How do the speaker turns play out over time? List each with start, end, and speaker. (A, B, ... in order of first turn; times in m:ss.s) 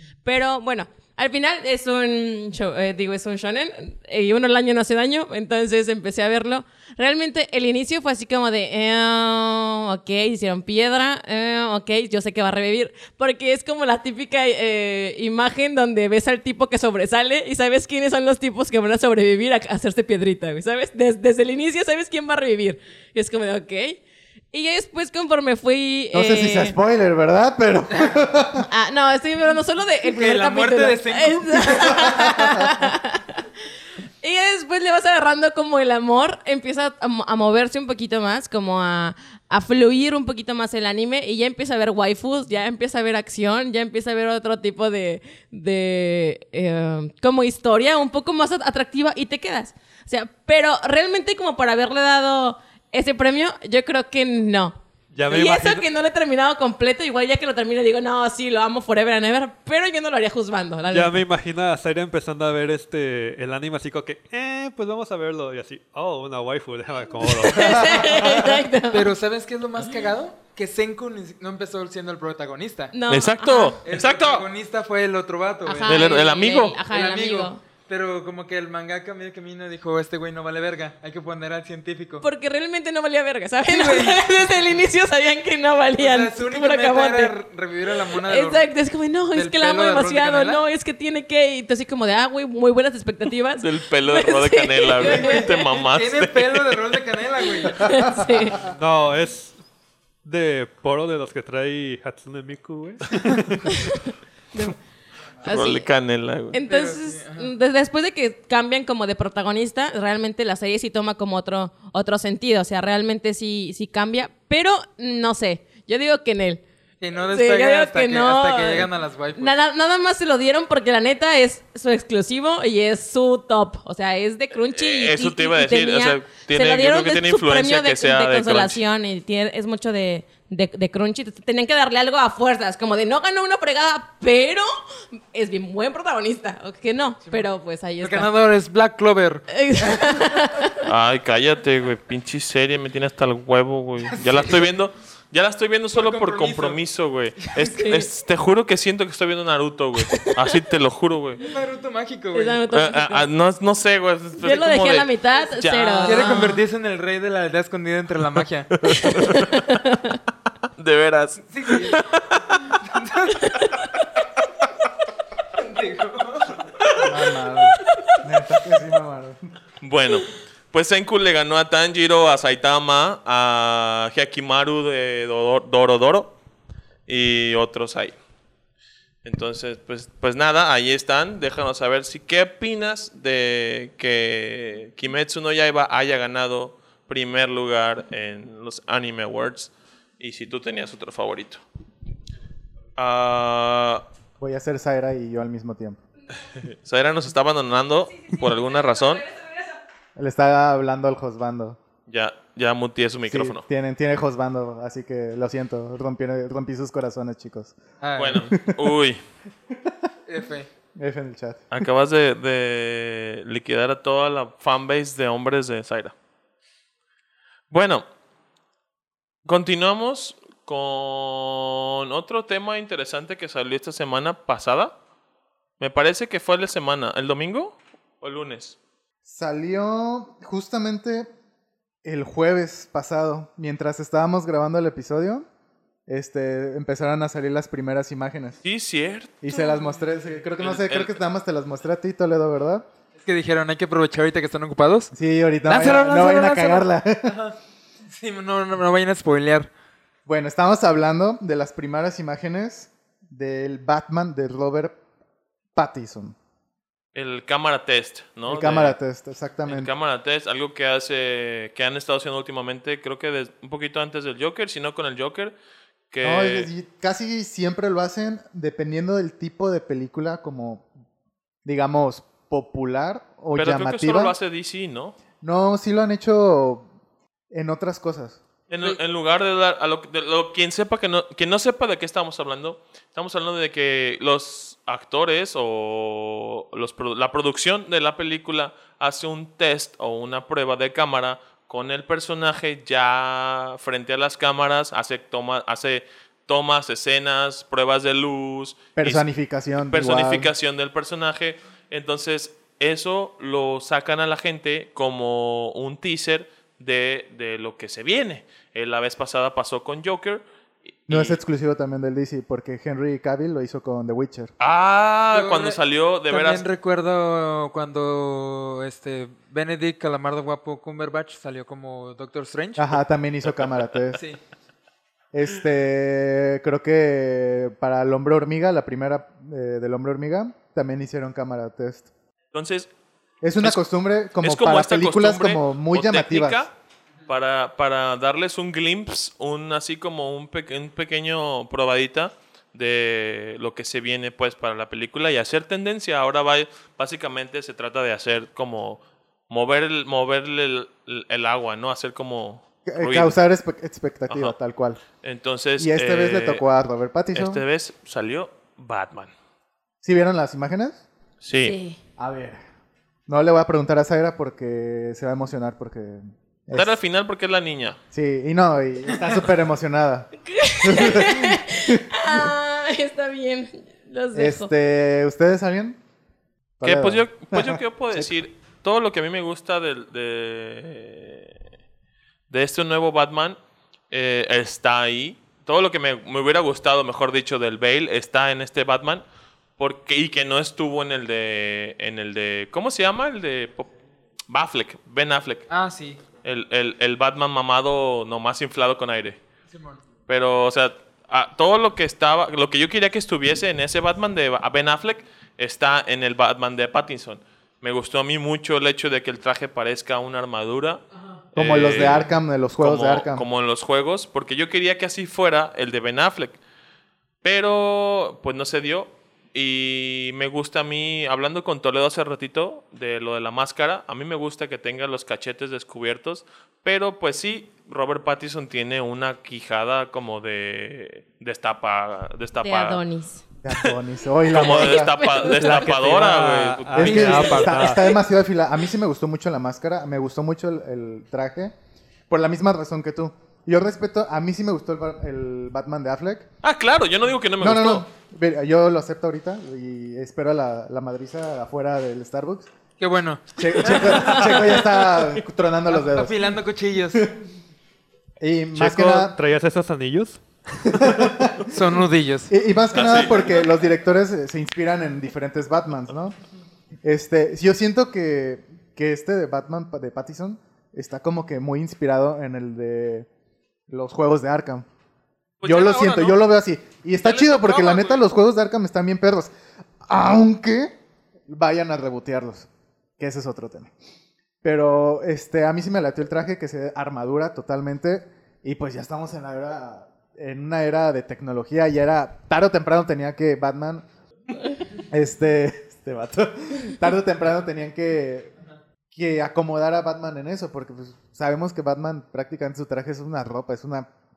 0:00.2-0:24.0 A
0:24.5-0:26.8 A
0:26.1-0:28.7 B
0:28.6-0:33.4 A
0:30.0-0:32.3 C
0:34.2-1:01.2 A
0:55.1-0:55.9 D
1:00.9-1:08.2 D
1:07.2-1:09.1 A
1:07.6-1:08.0 B
1:08.9-1:12.9 C
1:12.9-1:13.8 A
1:13.1-1:14.4 E
1:13.8-1:16.2 C
1:15.6-1:17.6 A
1:15.8-1:16.8 E
1:16.8-1:22.2 C
1:22.2-1:27.4 A
1:23.7-1:24.2 C
1:26.0-1:28.7 C
1:28.2-1:35.8 A
1:29.3-1:30.6 C
1:33.6-1:36.8 E
1:35.0-1:38.0 C
1:37.6-1:38.6 A
1:38.6-1:39.6 D
1:40.2-1:43.9 D
1:43.6-1:44.8 A
1:45.4-1:45.9 A
1:45.4-1:46.6 E
1:46.5-1:56.6 A
1:46.6-1:47.5 C
1:57.0-1:59.5 C
1:57.2-2:18.3 A
2:04.7-2:08.8 E
2:18.0-2:20.2 C
2:19.5-2:20.8 A
2:20.8-2:31.4 E
2:24.1-2:24.7 C
2:25.9-2:26.8 C
2:27.4-2:27.7 C
2:27.7-2:28.1 A
2:30.1-2:30.4 A
2:31.5-2:32.6 C
2:32.3-2:33.3 A
2:32.7-2:36.4 E
2:34.4-2:36.6 A
2:36.0-2:38.7 C
2:38.8-2:39.4 E
2:38.9-2:40.2 A
2:40.8-2:42.4 E
2:41.5-2:42.0 C
2:42.7-2:43.5 C
2:43.4-2:43.9 A
2:45.6-2:46.6 C
2:47.0-2:49.4 B
2:49.8-2:56.3 E
2:57.1-2:58.2 E
2:59.2-3:11.6 E
3:13.0-3:14.0 E
3:14.4-3:16.0 B
3:16.6-3:19.2 E
3:19.3-3:19.6 A
3:20.2-3:21.8 B
3:22.1-3:23.6 E
3:23.3-3:27.8 B
3:28.0-3:28.5 C
3:28.2-3:29.2 E
3:28.4-3:28.8 B
3:30.3-3:30.7 C
3:30.9-3:31.6 B
3:31.7-3:36.1 E
3:37.7-3:38.0 E
3:39.4-3:44.9 E
3:45.8-3:48.8 E
3:49.2-3:51.3 B
3:52.0-3:55.5 B
3:56.1-3:58.6 B
3:58.6-3:59.4 E
3:59.4-4:02.8 B
4:00.6-4:01.2 E
4:03.2-4:05.1 C
4:05.1-4:07.4 B
4:05.6-4:07.6 C
4:08.1-4:09.7 C
4:10.2-4:15.0 B
4:15.7-4:16.4 B
4:17.1-4:19.0 E
4:18.5-4:19.9 B
4:19.6-4:25.6 E
4:26.1-4:26.7 E
4:26.2-4:30.8 B
4:31.6-4:34.4 B
4:33.5-4:35.2 E
4:35.4-4:36.9 B
4:37.5-4:38.4 B
4:38.7-4:59.2 E
4:59.0-5:00.5 B
4:59.9-5:11.4 E
5:11.1-5:14.5 B
5:14.6-5:16.6 E
5:15.3-5:22.9 C
5:22.8-5:24.2 B
5:25.3-5:32.1 B
5:32.5-5:32.9 E
5:33.4-5:36.6 B
5:34.4-5:36.7 E
5:37.3-5:53.4 E
5:52.8-5:55.0 B
5:54.3-5:54.5 E
5:55.2-5:56.6 E
5:55.8-5:57.6 B
5:57.3-5:59.3 E
6:00.0-6:01.0 B
6:01.4-6:01.7 E
6:01.6-6:02.0 A
6:02.2-6:02.6 B
6:03.3-6:07.0 B
6:06.7-6:08.0 E
6:08.1-6:12.5 B
6:10.4-6:14.7 A
6:14.3-6:16.0 B
6:16.8-6:18.3 B
6:16.8-6:21.5 E
6:22.5-6:23.6 E
6:24.1-6:29.2 E
6:29.8-6:33.9 E
6:34.5-6:35.7 E
6:35.7-6:36.2 C
6:36.4-6:39.4 E
6:39.7-6:40.0 C
6:40.3-6:51.0 E
6:51.5-6:53.4 B
6:51.5-6:56.6 E
6:57.4-7:13.0 E
7:12.6-7:13.4 A
7:13.6-7:15.2 B
7:14.5-7:17.7 E
7:14.6-7:15.9 A
7:15.5-7:18.0 D
7:16.9-7:21.7 B
7:17.2-7:17.7 C
7:17.6-7:18.2 A
7:22.3-7:26.5 B
7:26.6-7:28.0 E
7:27.6-7:32.7 B
7:33.0-7:34.8 C
7:33.6-7:36.4 B
7:35.9-7:37.2 C
7:38.4-7:39.4 B
7:38.7-7:41.1 D
7:40.8-7:41.7 B
7:41.7-7:42.5 C
7:42.5-7:46.4 B
7:42.9-7:43.5 E
7:47.0-7:53.3 B
7:53.9-7:54.8 B
7:55.6-7:56.4 E
7:55.6-7:59.5 B
7:57.2-7:58.3 E
8:00.0-8:01.0 B
8:01.5-8:02.7 B
8:03.2-8:03.9 B
8:04.6-8:14.0 B
8:15.1-8:18.5 B
8:19.1-8:24.1 B